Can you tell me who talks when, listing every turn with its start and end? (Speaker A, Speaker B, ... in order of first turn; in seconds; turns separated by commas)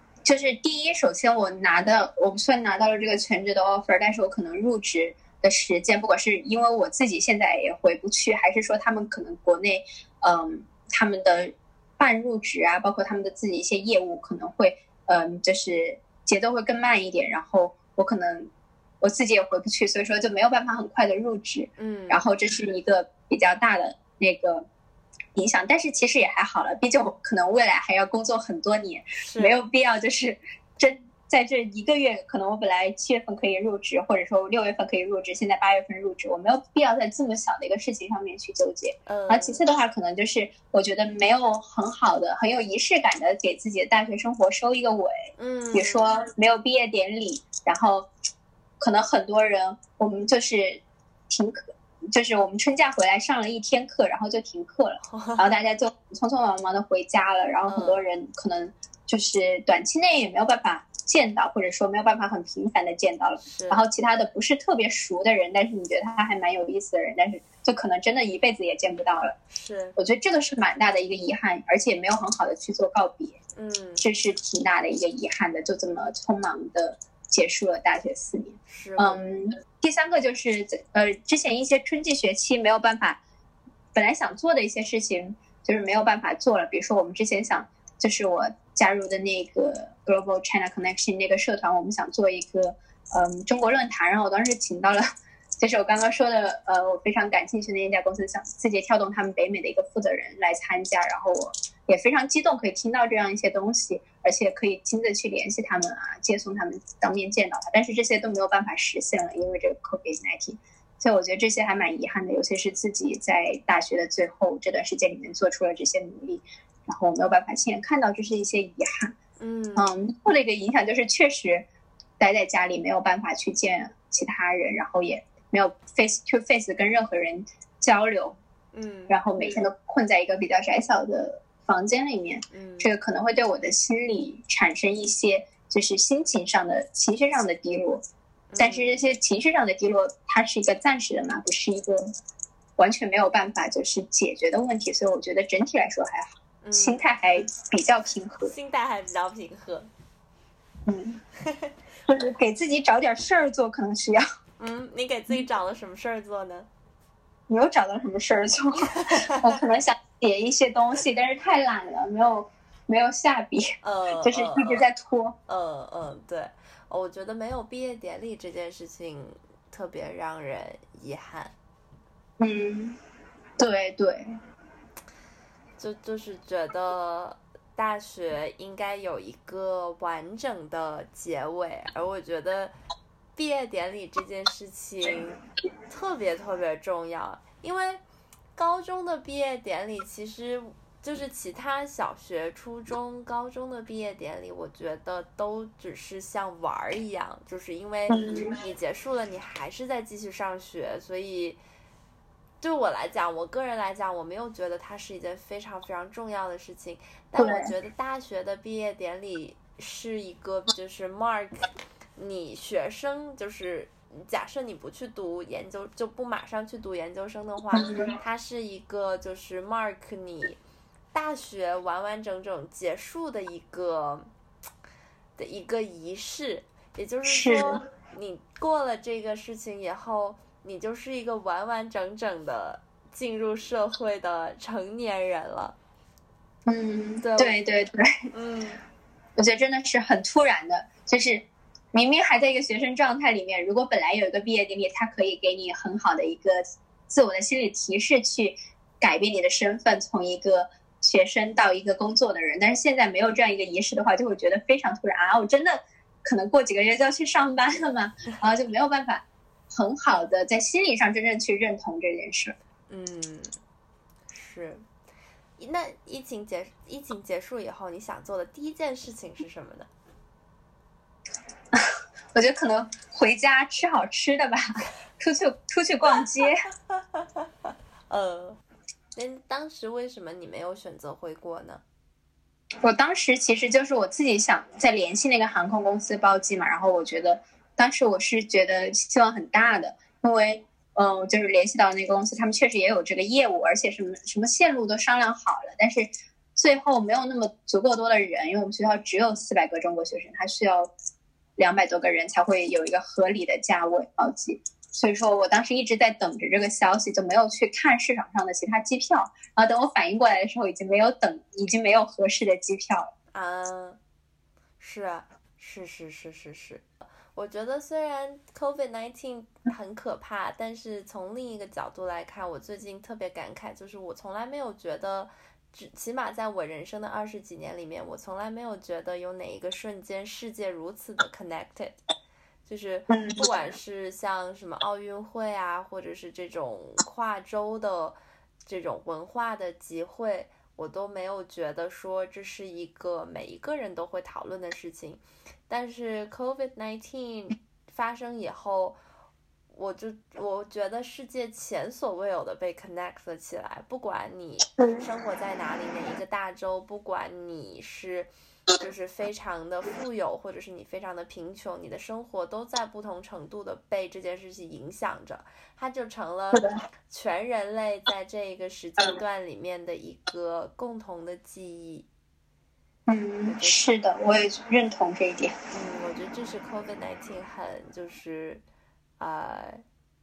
Speaker A: 0.2-18.5, Speaker A: 19.0-24.6, Speaker B: 21.8-22.2, Speaker A: 25.3-45.1, Speaker B: 29.2-29.6, Speaker B: 39.1-39.6, Speaker B: 45.4-46.1, Speaker A: 45.7-48.1, Speaker A: 48.8-69.4, Speaker B: 55.1-55.5, Speaker B: 57.7-58.0, Speaker B: 63.4-63.8, Speaker B: 69.5-70.0, Speaker A: 70.0-73.4, Speaker B: 73.5-74.1, Speaker A: 74.0-83.2, Speaker B: 78.7-79.2, Speaker A: 83.9-95.1, Speaker A: 95.6-119.2, Speaker B: 119.4-119.9, Speaker A: 119.8-121.7, Speaker A: 122.2-128.4, Speaker B: 128.7-129.2, Speaker A: 129.1-138.0, Speaker B: 132.5-132.9, Speaker B: 138.5-139.0, Speaker A: 138.6-142.1, Speaker A: 142.8-148.5, Speaker B: 146.6-147.1, Speaker B: 148.4-149.9, Speaker A: 150.8-151.2, Speaker B: 151.4-151.7, Speaker A: 152.1-154.2, Speaker B: 154.6-156.7, Speaker A: 157.5-163.7, Speaker B: 158.8-159.6, Speaker B: 163.8-164.8, Speaker A: 164.2-165.4, Speaker B: 165.5-171.5, Speaker A: 172.4-173.0, Speaker A: 173.6-174.3, Speaker B: 175.8-182.7, Speaker B: 183.3-188.0, Speaker B: 188.6-201.6, Speaker A: 198.1-198.6, Speaker B: 202.6-220.6, Speaker A: 207.3-207.7, Speaker A: 217.8-218.1, Speaker B: 221.1-224.3, Speaker B: 225.4-235.8, Speaker A: 227.3-227.8, Speaker A: 236.7-238.1, Speaker B: 237.2-237.6, Speaker B: 238.3-238.8, Speaker A: 239.4-262.5, Speaker B: 262.9-263.6, Speaker B: 264.3-264.8, Speaker B: 265.6-269.9, Speaker A: 271.7-276.6, Speaker B: 278.1-278.6, Speaker B: 279.1-281.8, Speaker A: 282.8-300.9, Speaker A: 301.6-313.1, Speaker B: 313.3-314.0, Speaker B: 314.8-331.9, Speaker B: 332.6-349.0, Speaker A: 333.1-333.5, Speaker B: 349.7-372.1, Speaker A: 373.1-375.5, Speaker B: 373.4-373.9, Speaker B: 375.7-378.6, Speaker B: 379.2-379.8